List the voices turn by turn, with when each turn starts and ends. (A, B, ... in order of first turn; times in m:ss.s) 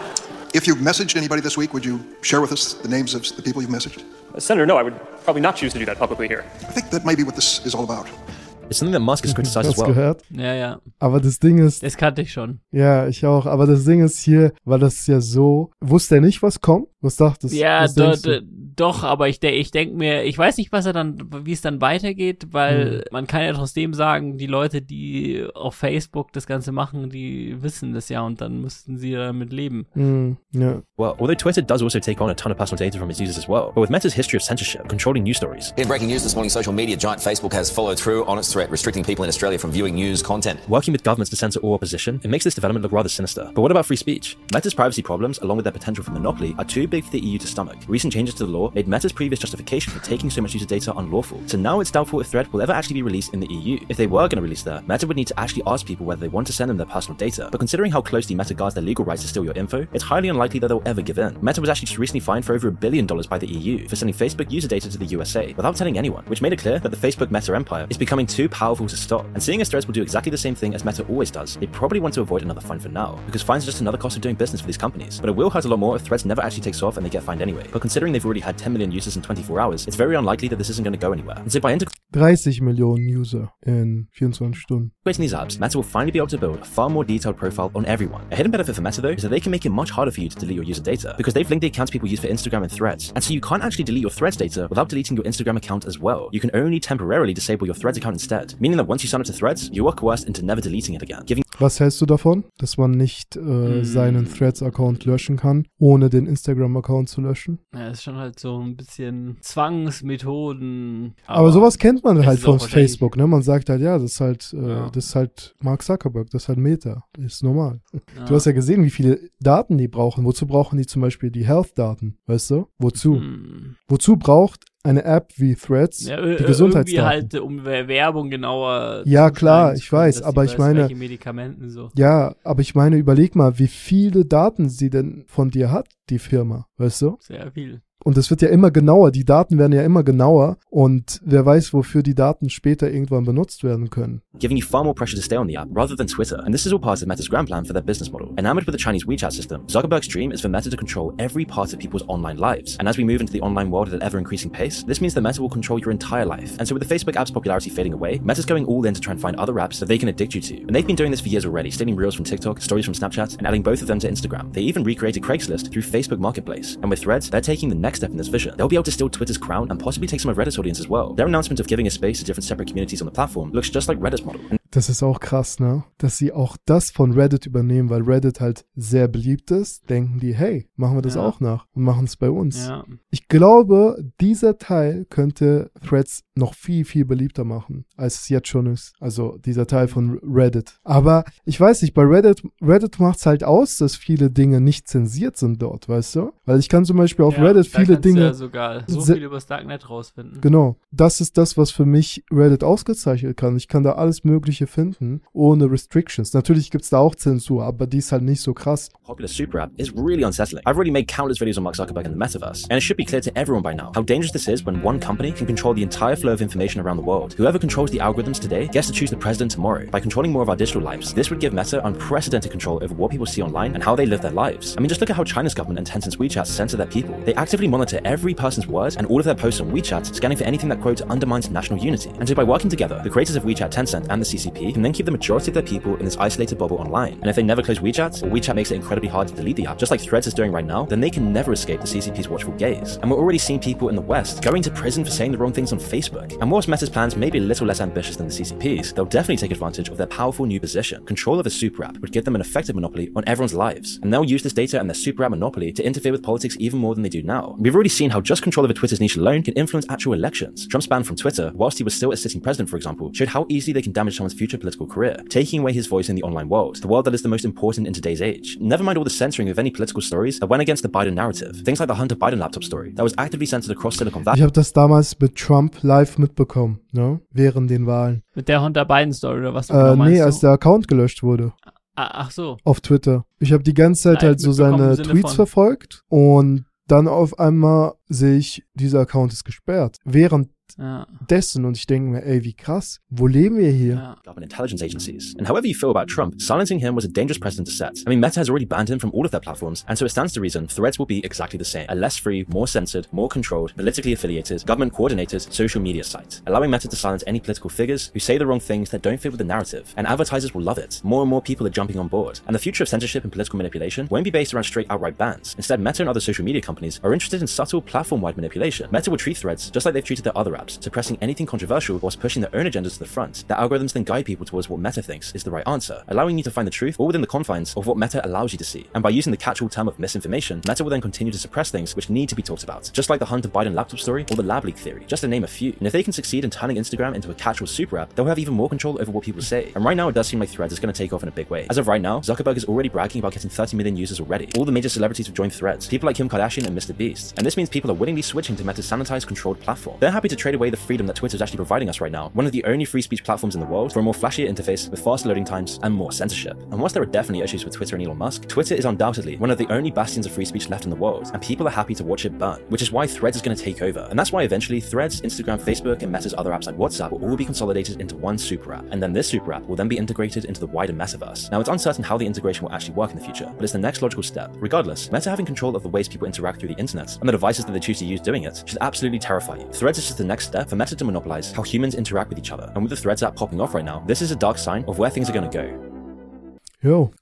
0:00.5-0:04.0 A
0:04.3-0:06.5 B
0:06.7-0:08.1 A
0:08.7-0:10.0 C
0:09.2-0:10.2 D
0:10.3-0:10.8 E
0:11.0-0:11.8 D
0:11.8-0:12.6 E
0:12.7-0:18.4 D
0:17.5-0:29.9 E
0:22.7-0:23.0 D
0:29.9-0:30.8 D
0:31.0-0:35.7 C
0:35.8-0:40.6 F
0:40.6-1:21.9 C
1:22.1-1:24.9 D
1:25.0-1:41.4 C
1:41.6-1:47.6 D
1:43.6-1:44.5 E
1:47.7-1:53.1 E
1:51.3-2:03.2 D
1:54.6-1:55.0 E
1:58.1-1:58.5 E
2:02.9-2:03.8 E
2:03.9-2:07.3 D
2:06.0-2:11.9 E
2:09.0-2:10.9 D
2:11.9-2:17.2 D
2:17.2-2:17.8 E
2:18.0-2:24.2 D
2:24.4-2:54.5 C
2:54.7-3:18.4 D
3:01.0-3:01.3 E
3:02.5-3:03.0 E
3:09.7-3:10.0 E
3:17.3-3:20.5 E
3:18.9-3:19.2 D
3:20.4-3:28.9 D
3:29.0-4:34.4 C
4:34.3-4:38.2 D
4:38.3-4:40.4 E
4:39.7-4:41.5 D
4:41.9-4:42.6 E
4:42.6-4:50.7 D
4:44.1-4:45.5 E
4:50.8-4:51.2 E
4:51.2-4:54.0 D
4:53.9-4:54.2 E
4:54.2-6:25.8 C
6:26.8-6:27.1 D